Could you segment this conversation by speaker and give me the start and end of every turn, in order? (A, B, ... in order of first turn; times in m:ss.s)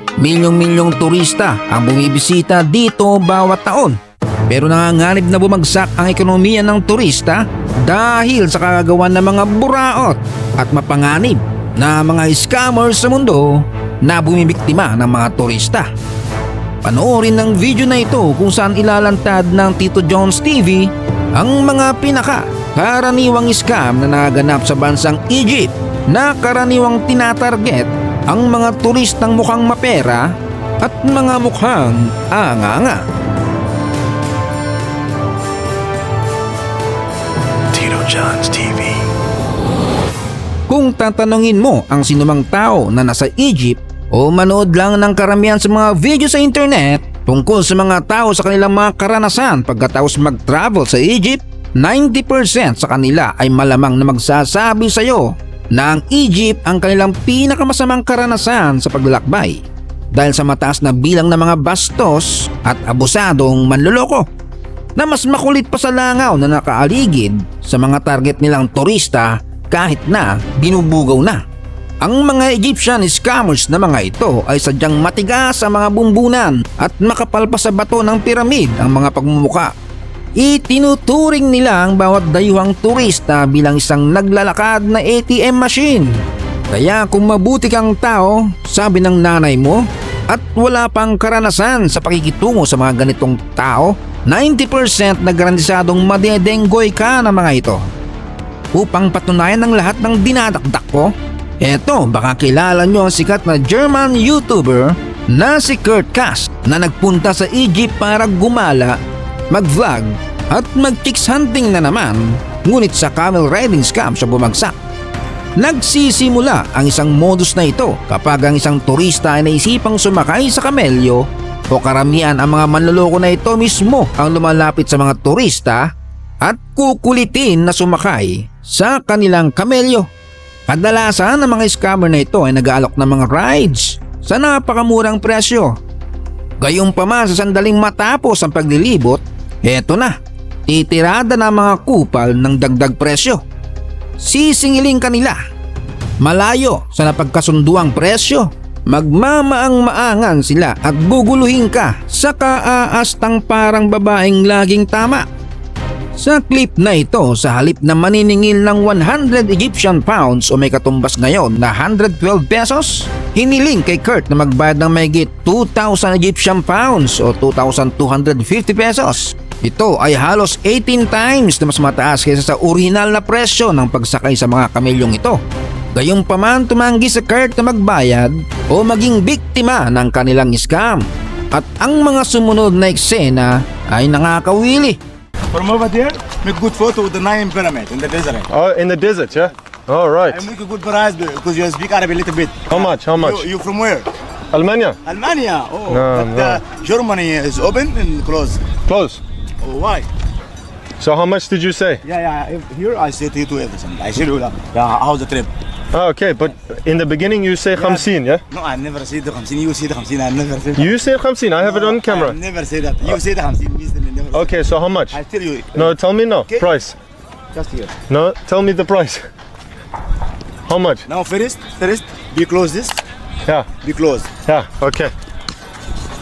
0:00.2-0:15.9 A
0:16.8-0:33.1 A
0:37.8-0:39.0 A
0:40.7-1:04.3 A
1:05.0-1:11.4 A
1:12.0-1:19.7 A
1:20.4-1:37.8 A
1:38.7-1:49.0 A
1:49.5-1:54.8 A
1:55.6-2:10.1 A
2:10.7-2:15.8 A
2:16.6-2:23.4 A
2:24.2-2:25.4 A
2:26.2-2:35.3 A
2:36.2-2:55.4 A
2:55.9-3:05.0 A
3:05.5-3:08.5 B
3:08.5-3:10.4 C
3:10.2-3:14.1 B
3:12.7-3:13.4 C
3:14.5-3:15.0 C
3:15.0-3:18.7 B
3:15.9-3:16.6 C
3:18.9-3:19.2 C
3:19.6-3:20.1 B
3:21.0-3:22.0 C
3:22.0-3:25.5 B
3:25.9-3:28.4 C
3:27.7-3:36.7 B
3:30.8-3:32.4 C
3:34.3-3:35.2 C
3:35.8-3:37.0 C
3:37.5-3:38.0 B
3:38.1-3:39.3 C
3:40.7-3:41.1 C
3:41.1-3:43.0 B
3:43.7-3:44.4 B
3:44.4-3:45.1 C